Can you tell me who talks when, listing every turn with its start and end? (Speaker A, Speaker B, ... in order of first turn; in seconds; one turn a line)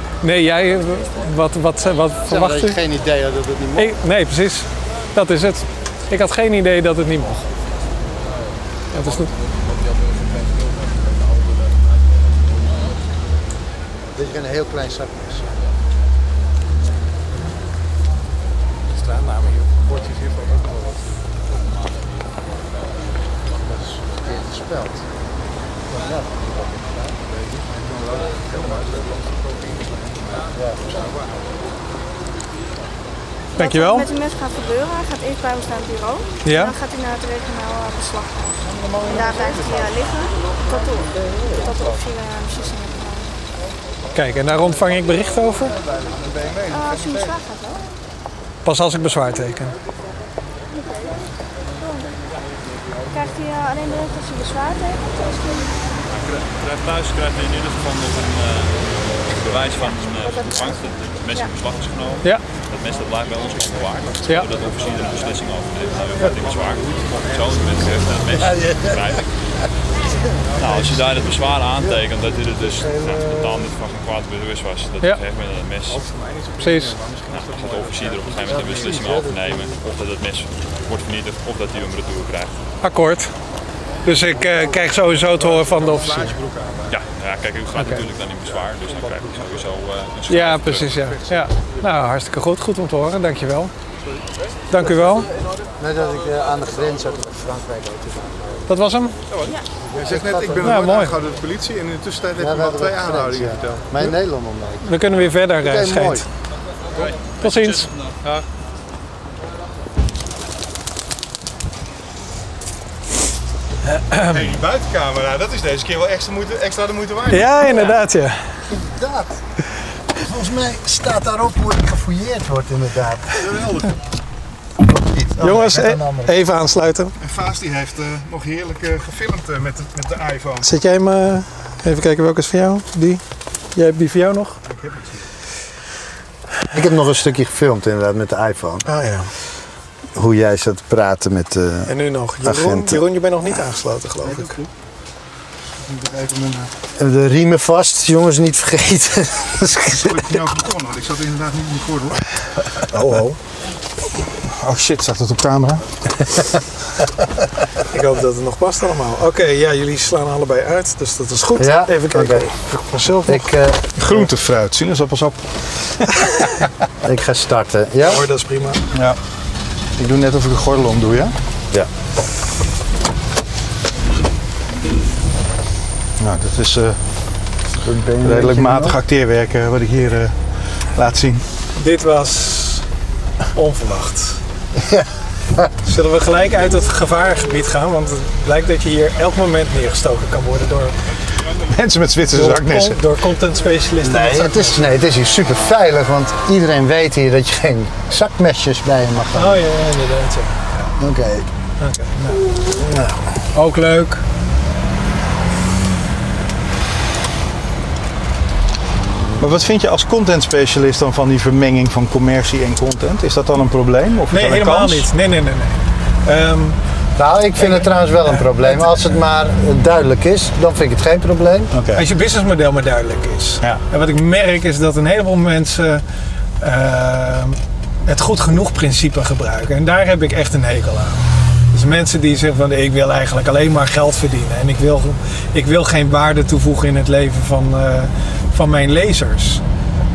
Speaker A: 0.2-2.8
Speaker B: 2.3-4.0
Speaker A: 3.8-7.5
Speaker A: 8.9-9.3
Speaker B: 14.1-15.5
Speaker C: 18.9-19.8
Speaker B: 19.9-20.7
Speaker B: 23.7-25.0
Speaker B: 25.9-27.0
Speaker C: 27.4-31.5
Speaker B: 30.6-30.8
Speaker A: 33.6-34.1
Speaker D: 33.6-43.4
Speaker A: 36.4-36.7
Speaker C: 38.6-39.9
Speaker A: 44.1-45.8
Speaker C: 45.9-47.3
Speaker D: 46.7-47.8
Speaker A: 48.6-49.7
Speaker D: 50.7-51.2
Speaker D: 51.8-52.1
Speaker D: 53.1-55.4
Speaker E: 56.1-69.4
Speaker C: 64.5-65.0
Speaker C: 66.2-68.4
Speaker B: 68.4-69.1
Speaker C: 70.6-71.5
Speaker E: 70.6-76.0
Speaker C: 75.9-79.2
Speaker A: 76.6-77.0
Speaker E: 77.3-82.6
Speaker B: 79.0-79.6
Speaker A: 82.8-83.3
Speaker A: 84.0-86.3
Speaker C: 84.5-87.0
Speaker E: 86.9-90.9
Speaker A: 87.7-88.0
Speaker C: 88.5-89.6
Speaker A: 90.3-93.7
Speaker C: 90.6-91.5
Speaker A: 94.7-95.3
Speaker B: 95.8-98.7
Speaker A: 98.7-99.2
Speaker C: 99.9-104.1
Speaker B: 99.9-100.8
Speaker A: 100.6-101.2
Speaker B: 102.4-104.9
Speaker A: 104.8-106.2
Speaker B: 105.6-106.2
Speaker A: 107.4-107.9
Speaker C: 107.6-108.4
Speaker A: 113.9-114.5
Speaker C: 114.2-117.9
Speaker A: 117.3-118.4
Speaker B: 118.7-119.4
Speaker B: 120.1-123.4
Speaker C: 123.3-123.9
Speaker B: 124.9-125.9
Speaker C: 125.4-126.3
Speaker A: 125.4-127.1
Speaker C: 127.2-130.7
Speaker A: 130.6-133.2
Speaker A: 133.7-134.6
Speaker C: 134.7-135.2
Speaker B: 136.7-138.8
Speaker A: 138.8-139.3
Speaker B: 140.1-143.0
Speaker A: 141.8-144.6
Speaker C: 145.9-146.7
Speaker B: 146.9-150.4
Speaker C: 149.9-153.3
Speaker C: 154.3-156.5
Speaker A: 157.8-163.5
Speaker B: 161.6-162.5
Speaker B: 163.2-164.3
Speaker C: 163.9-166.5
Speaker B: 167.0-168.2
Speaker A: 168.0-168.8
Speaker C: 168.9-169.2
Speaker C: 170.0-171.3
Speaker C: 176.2-177.0
Speaker B: 177.8-179.0
Speaker C: 178.2-181.4
Speaker A: 181.8-182.8
Speaker A: 183.5-184.4
Speaker B: 184.7-185.7
Speaker A: 185.8-191.0
Speaker C: 191.7-193.0
Speaker A: 192.3-194.9
Speaker B: 194.0-199.6
Speaker A: 199.3-200.9
Speaker B: 201.0-201.5
Speaker A: 201.8-202.4
Speaker B: 202.7-203.1
Speaker A: 203.5-204.2
Speaker C: 209.4-215.1
Speaker A: 214.3-216.8
Speaker B: 217.2-221.7
Speaker A: 217.6-217.9
Speaker C: 221.7-222.0
Speaker A: 221.9-226.0
Speaker A: 226.6-239.6